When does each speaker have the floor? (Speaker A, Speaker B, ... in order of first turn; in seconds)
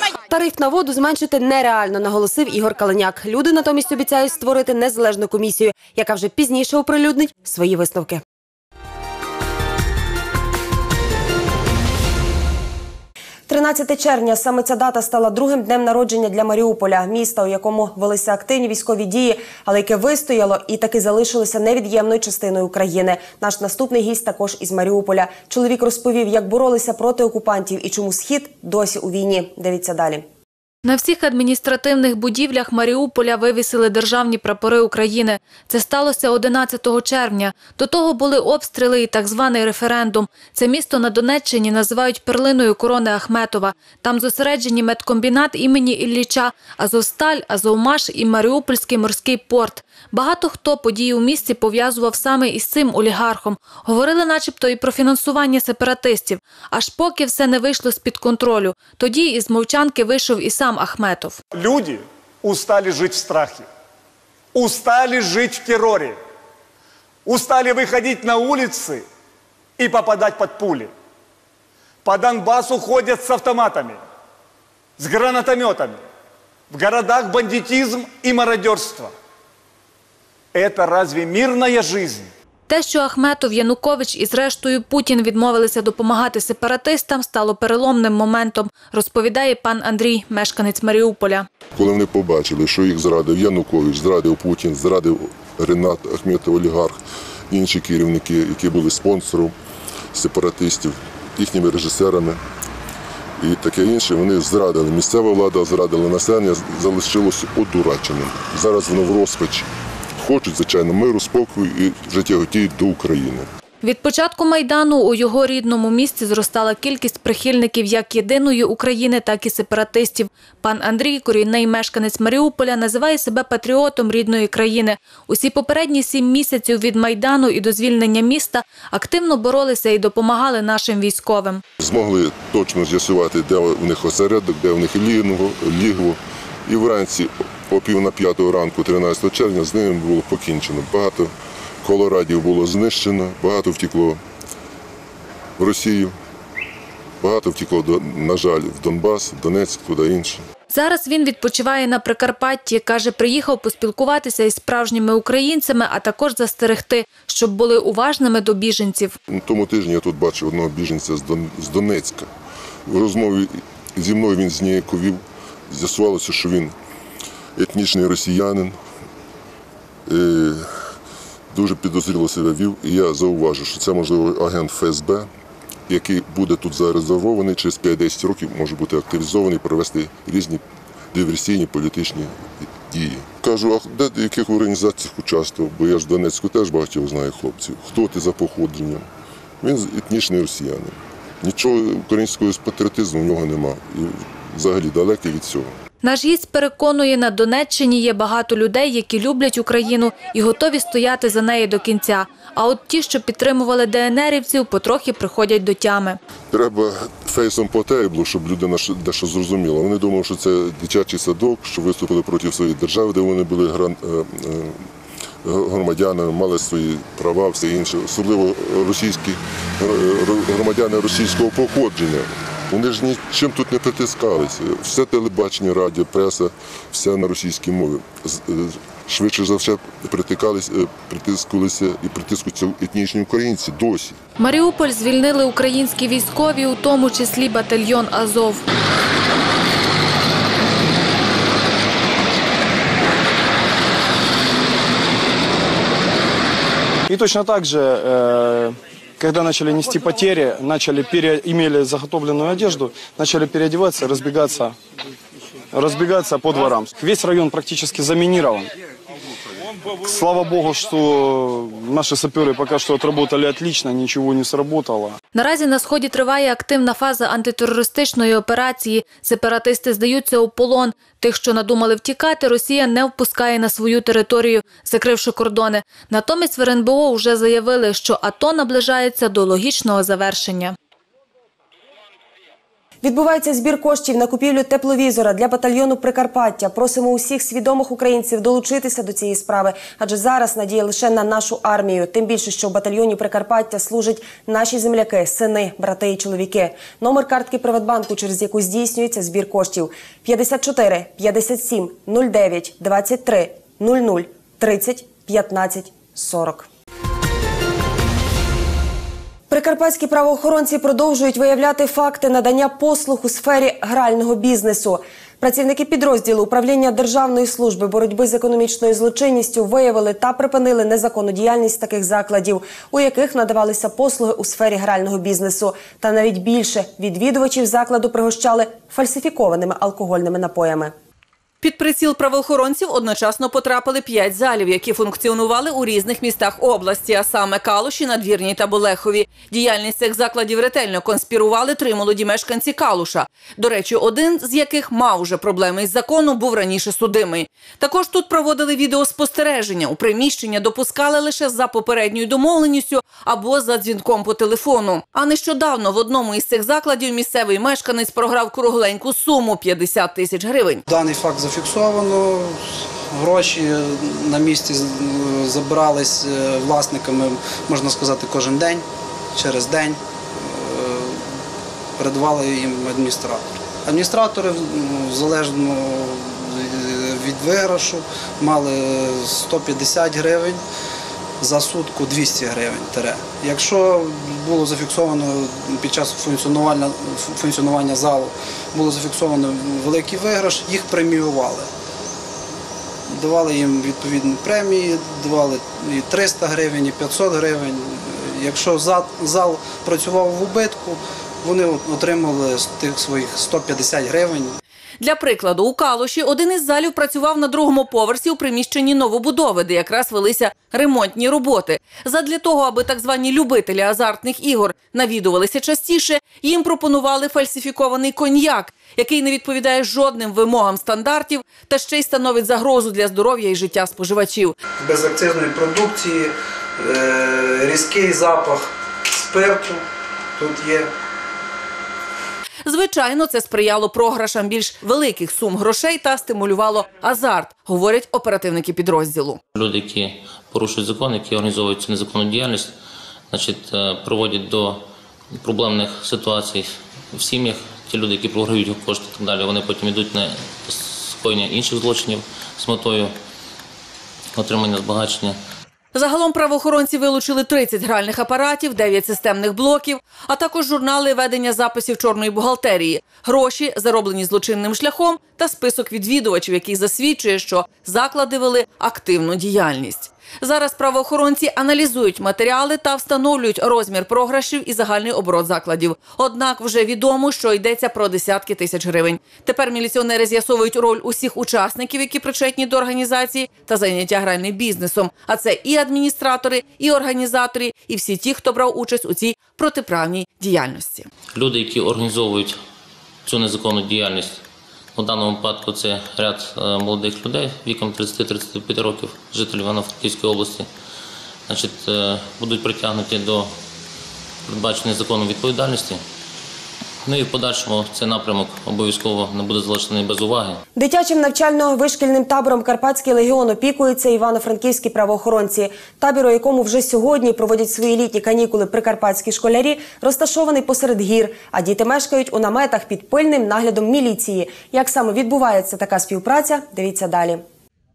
Speaker A: 0.3-8.2, 13.5-30.2, 283.0-306.7, 309.5-330.9, 510.8-527.4
Speaker B: 30.9-61.4, 82.7-91.5, 113.8-131.6, 150.7-159.2, 196.0-206.2, 234.4-238.6, 265.3-280.8
Speaker C: 61.5-63.7, 64.5-66.2, 67.3-69.0, 69.8-70.9, 72.0-74.0, 75.0-76.0, 76.7-79.1, 80.5-82.3
Speaker D: 91.8-97.0, 97.5-99.5, 100.1-102.4, 103.4-109.7, 110.2-113.5, 131.8-141.3, 141.8-144.2, 145.6-146.1, 147.2-150.4, 159.3-162.3, 162.9-166.7, 167.6-168.8, 170.1-170.9, 171.5-175.3, 175.9-180.6, 181.1-189.1, 189.6-195.7, 206.5-214.8, 215.4-234.2
Speaker E: 247.1-254.8, 255.7-258.7, 260.0-265.2
Speaker F: 331.6-360.8, 405.0-424.6, 432.6-439.4, 455.9-491.1
Speaker G: 360.9-371.3, 372.0-380.6, 381.4-391.7, 393.1-404.6, 424.8-429.8, 430.4-430.9
Speaker H: 439.6-442.8, 443.3-444.9, 445.4-453.1, 454.4-455.4, 491.4-492.6, 493.2-494.4, 495.0-500.7, 501.5-503.5, 504.5-506.0, 507.1-510.6